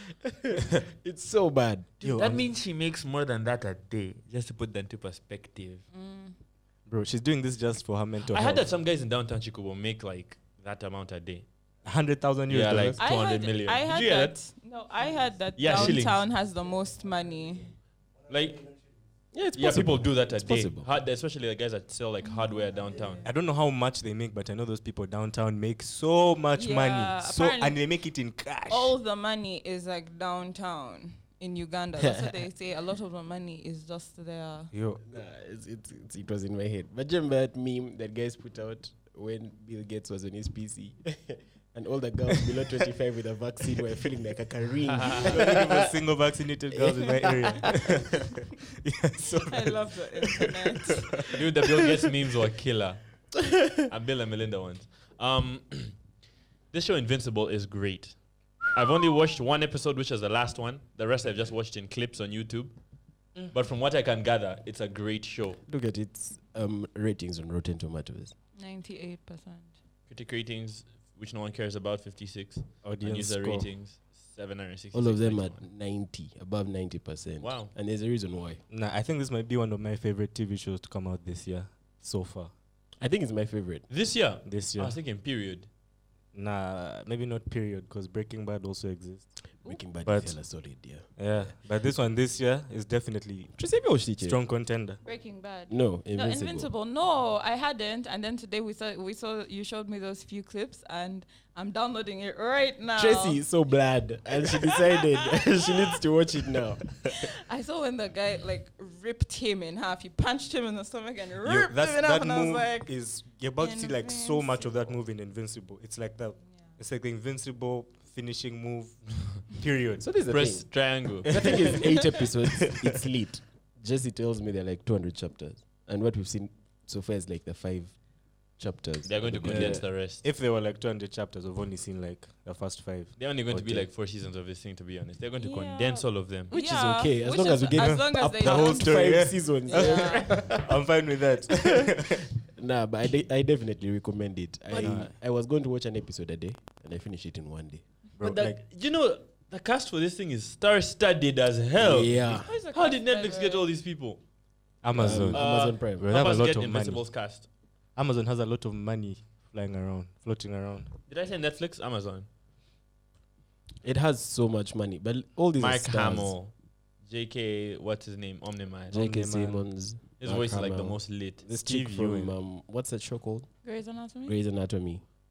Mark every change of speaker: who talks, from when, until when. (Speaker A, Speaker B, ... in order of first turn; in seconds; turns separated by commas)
Speaker A: 0.1-1.9, Speaker B: 2.0-5.8, Speaker C: 2.0-2.4, Speaker D: 5.9-6.3, Speaker C: 6.9-8.7, Speaker B: 8.3-11.5, Speaker C: 11.8-13.0, Speaker B: 12.5-14.4, Speaker D: 13.0-17.8, Speaker B: 15.6-16.2, Speaker C: 15.7-16.0, Speaker B: 18.3-18.7, Speaker A: 19.3-20.9, Speaker B: 19.6-23.2, Speaker C: 23.2-29.0, Speaker D: 26.6-27.9, Speaker D: 28.7-34.7, Speaker A: 32.0-32.3, Speaker C: 34.7-35.0, Speaker A: 35.0-45.9, Speaker B: 45.0-45.3, Speaker C: 45.2-51.2, Speaker A: 46.8-47.7, Speaker D: 49.5-51.3, Speaker B: 51.3-53.3, Speaker B: 53.9-56.0, Speaker B: 56.7-62.8, Speaker B: 63.4-65.6, Speaker A: 65.7-68.3, Speaker D: 68.6-69.7, Speaker B: 70.1-75.6, Speaker C: 72.8-73.7, Speaker A: 74.9-78.6, Speaker B: 77.4-77.7, Speaker C: 78.7-82.5, Speaker A: 83.0-83.9, Speaker B: 83.9-85.7, Speaker C: 84.5-85.0, Speaker C: 86.3-89.3, Speaker A: 89.6-91.6, Speaker C: 90.0-90.4, Speaker C: 91.2-93.6, Speaker A: 93.6-94.4, Speaker C: 94.2-95.0, Speaker D: 95.0-103.4, Speaker A: 95.7-96.7, Speaker A: 103.0-107.1, Speaker D: 104.5-105.9, Speaker D: 107.0-114.9, Speaker C: 111.4-120.1, Speaker A: 120.0-128.0, Speaker B: 120.3-121.7, Speaker C: 122.5-123.0, Speaker A: 128.6-129.8, Speaker B: 129.1-130.3, Speaker C: 129.4-133.9, Speaker B: 133.2-136.5, Speaker D: 135.4-140.6, Speaker A: 136.5-140.7, Speaker C: 137.8-139.6, Speaker C: 140.5-142.3, Speaker A: 141.5-141.8, Speaker A: 142.6-147.8, Speaker C: 144.8-145.1, Speaker C: 148.2-148.6, Speaker B: 148.2-154.2, Speaker A: 151.8-152.5, Speaker D: 152.4-153.7, Speaker C: 154.8-157.0, Speaker A: 154.9-156.2, Speaker B: 155.3-157.5, Speaker C: 158.0-160.9, Speaker B: 161.1-162.3, Speaker A: 163.8-166.3, Speaker B: 165.6-169.0, Speaker A: 168.9-173.5, Speaker C: 168.9-169.7, Speaker B: 170.2-171.4, Speaker C: 171.5-172.3, Speaker D: 173.6-174.4, Speaker A: 174.2-175.0